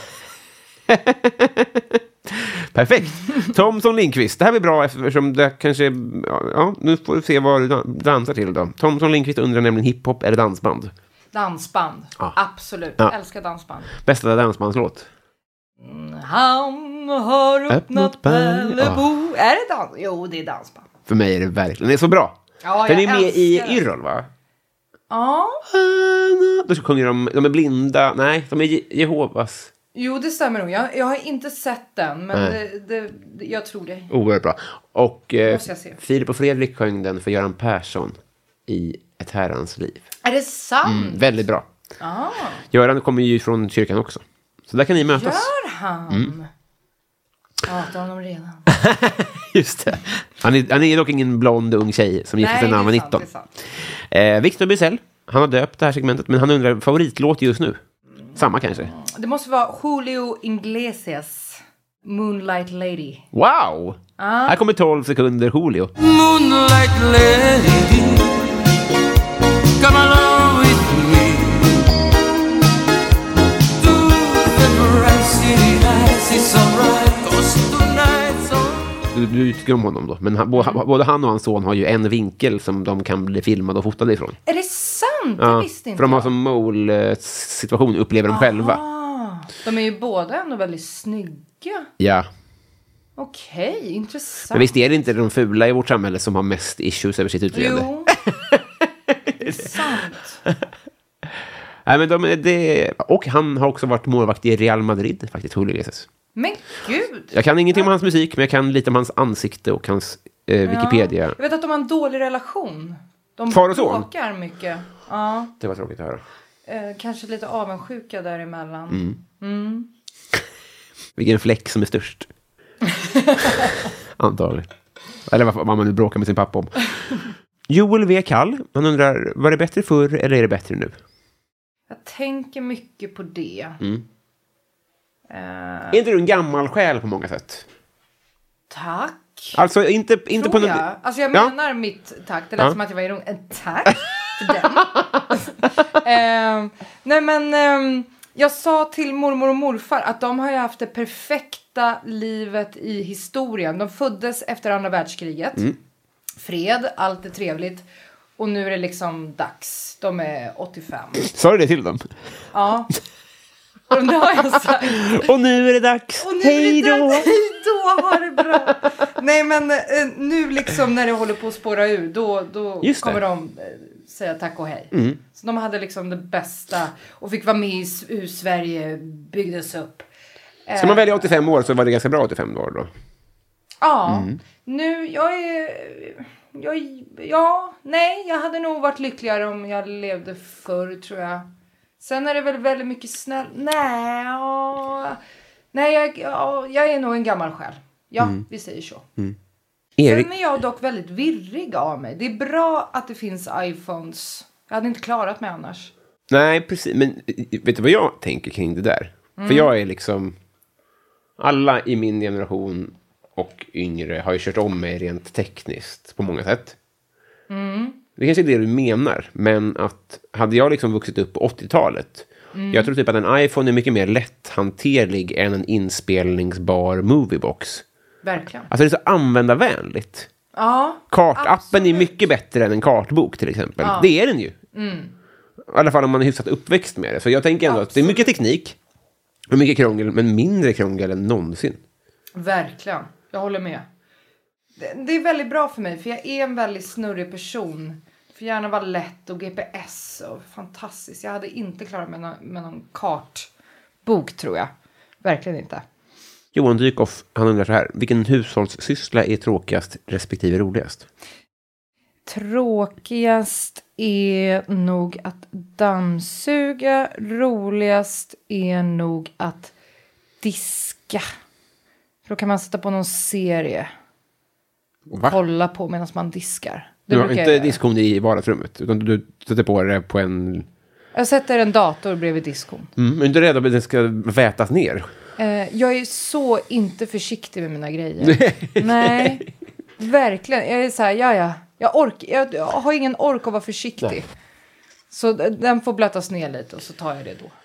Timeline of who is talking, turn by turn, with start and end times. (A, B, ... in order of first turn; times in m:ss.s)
0:00.9-0:10.9 A
0:11.3-0:13.9 B
0:13.9-0:15.1 A
0:15.8-0:20.9 B
0:17.7-0:19.0 A
0:21.1-0:24.3 A
0:22.6-0:23.8 B
0:25.1-0:25.6 B
0:25.7-0:29.7 A
0:29.9-0:34.1 B
0:34.1-0:38.2 A
0:35.4-0:36.0 B
0:38.7-0:40.1 A
0:40.2-0:41.2 B
0:40.8-0:41.7 A
0:42.0-0:42.6 B
0:42.7-0:45.5 A
0:45.1-0:46.5 B
0:47.7-0:48.7 B
0:48.7-0:53.3 A
0:52.4-0:53.5 B
0:54.0-0:57.8 A
0:58.3-1:03.2 B
0:58.4-0:58.9 A
1:03.3-1:05.9 A
1:04.2-1:04.6 B
1:06.0-1:08.7 C
1:09.8-1:11.9 C
1:13.8-1:19.0 C
1:19.1-1:24.4 A
1:24.5-1:26.3 B
1:25.4-1:28.8 A
1:28.3-1:31.9 B
1:32.0-1:32.3 A
1:33.2-1:34.7 B
1:34.5-1:38.6 A
1:37.5-1:38.1 B
1:39.4-1:40.4 B
1:39.4-1:39.7 A
1:41.8-1:46.1 A
1:46.4-1:47.9 B
1:47.3-1:51.4 A
1:50.6-1:55.5 B
1:53.5-1:54.1 A
1:55.6-1:56.2 A
1:56.7-1:59.9 B
1:58.9-1:59.2 A
2:01.2-2:02.3 A
2:02.9-2:03.7 B
2:03.6-2:04.7 A
2:05.3-2:11.0 A
2:11.9-2:13.8 B
2:15.3-2:16.0 B
2:15.9-2:17.7 A
2:18.7-2:19.6 B
2:19.5-2:21.5 A
2:20.3-2:35.7 B
2:36.4-2:37.9 B
2:38.4-2:41.3 B
2:41.2-2:42.1 A
2:42.5-2:42.9 B
2:43.9-2:45.3 B
2:44.9-2:47.3 A
2:46.2-3:00.1 B
2:52.8-2:53.2 A
2:54.9-2:55.2 A
3:00.7-3:01.4 B
3:00.8-3:02.9 A
3:03.8-3:11.5 B
3:04.1-3:04.4 A
3:12.0-3:15.2 B
3:15.7-3:19.0 B
3:20.0-3:20.3 A
3:20.0-3:25.9 B
3:26.3-3:30.4 A
3:29.4-3:29.7 B
3:31.4-3:36.8 A
3:37.5-3:38.0 B
3:38.2-3:47.8 A
3:42.5-3:42.9 B
3:48.2-3:48.7 B
3:48.7-3:50.3 A
3:50.5-3:52.1 B
3:51.1-3:54.6 A
3:53.8-3:54.1 B
3:54.7-3:55.1 B
3:55.7-3:58.8 A
3:57.7-3:58.3 B
3:59.5-4:01.8 A
4:02.4-4:03.8 B
4:04.8-4:13.5 B
4:14.0-4:14.7 B
4:15.2-4:15.8 B
4:16.5-4:21.1 A
4:22.3-4:29.7 B
4:30.4-4:31.2 B
4:32.3-4:33.9 B
4:35.1-4:35.4 A
4:35.2-4:37.8 B
4:37.1-4:40.7 A
4:41.1-4:42.9 B
4:43.0-4:45.1 A
4:45.4-4:49.5 B
4:48.2-4:49.5 A
4:50.0-4:54.3 B
4:55.1-4:57.5 B